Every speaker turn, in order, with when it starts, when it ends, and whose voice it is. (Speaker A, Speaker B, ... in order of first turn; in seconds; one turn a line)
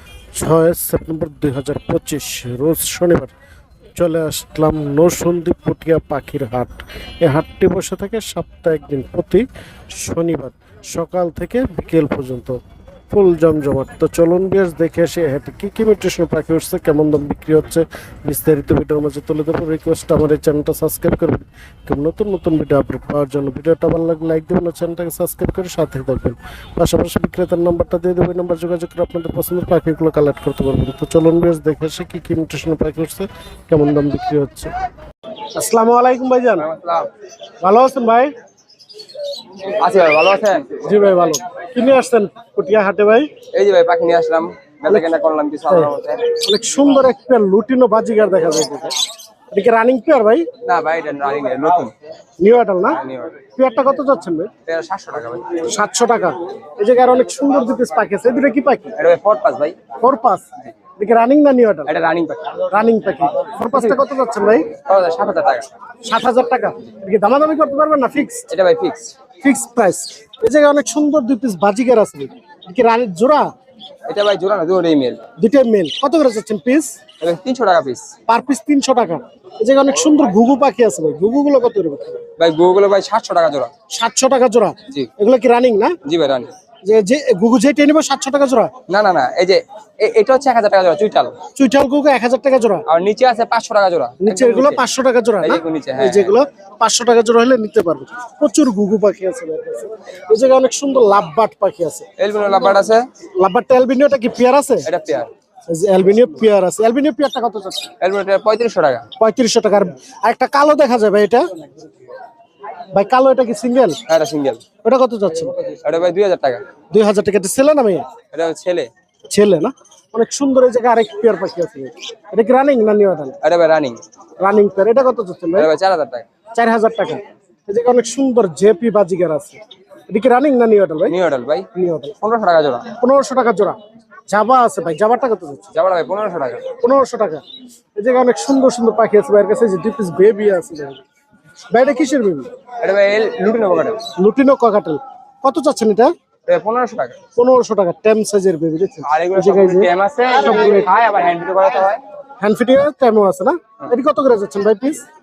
Speaker A: 0.4-3.3
Speaker A: 4.0-12.6
Speaker A: 13.1-34.7
Speaker A: 35.5-36.7
Speaker B: 36.6-37.1
Speaker A: 37.6-38.3
Speaker B: 39.8-40.8
Speaker A: 40.8-43.3
Speaker B: 43.5-46.2
Speaker A: 45.7-48.9
Speaker A: 49.5-50.5
Speaker B: 50.6-51.9
Speaker A: 52.4-53.0
Speaker B: 52.9-53.4
Speaker A: 53.5-54.5
Speaker B: 54.6-55.6
Speaker A: 55.6-58.9
Speaker B: 59.0-59.8
Speaker A: 60.0-61.9
Speaker B: 61.9-62.6
Speaker A: 62.7-64.7
Speaker B: 63.7-64.0
Speaker B: 64.8-65.7
Speaker A: 66.0-68.5
Speaker B: 68.5-69.1
Speaker A: 69.4-73.5
Speaker B: 74.1-75.2
Speaker A: 75.4-76.9
Speaker B: 77.2-78.1
Speaker A: 78.3-82.2
Speaker B: 82.4-83.7
Speaker A: 83.9-85.9
Speaker B: 86.0-86.5
Speaker A: 86.8-88.7
Speaker B: 88.9-91.3
Speaker A: 91.5-92.8
Speaker B: 92.9-94.8
Speaker A: 94.2-102.0
Speaker B: 95.4-96.3
Speaker B: 102.2-103.0
Speaker A: 103.4-104.9
Speaker B: 104.8-105.3
Speaker A: 105.7-107.9
Speaker B: 108.0-109.0
Speaker A: 109.2-111.4
Speaker A: 112.9-114.0
Speaker B: 114.1-114.6
Speaker A: 114.8-115.5
Speaker B: 115.8-116.6
Speaker A: 116.9-118.0
Speaker B: 118.3-118.9
Speaker A: 119.3-123.4
Speaker B: 123.4-124.0
Speaker A: 124.4-125.7
Speaker B: 125.5-126.2
Speaker A: 126.5-131.2
Speaker B: 131.1-131.7
Speaker A: 131.7-132.1
Speaker B: 132.2-132.9
Speaker A: 133.0-133.8
Speaker A: 134.3-135.7
Speaker B: 135.7-136.6
Speaker A: 136.7-137.4
Speaker A: 137.9-141.0
Speaker A: 141.7-142.5
Speaker B: 142.8-144.0
Speaker A: 144.2-146.1
Speaker B: 146.5-147.2
Speaker A: 147.3-150.9
Speaker B: 149.0-152.0
Speaker A: 152.4-155.0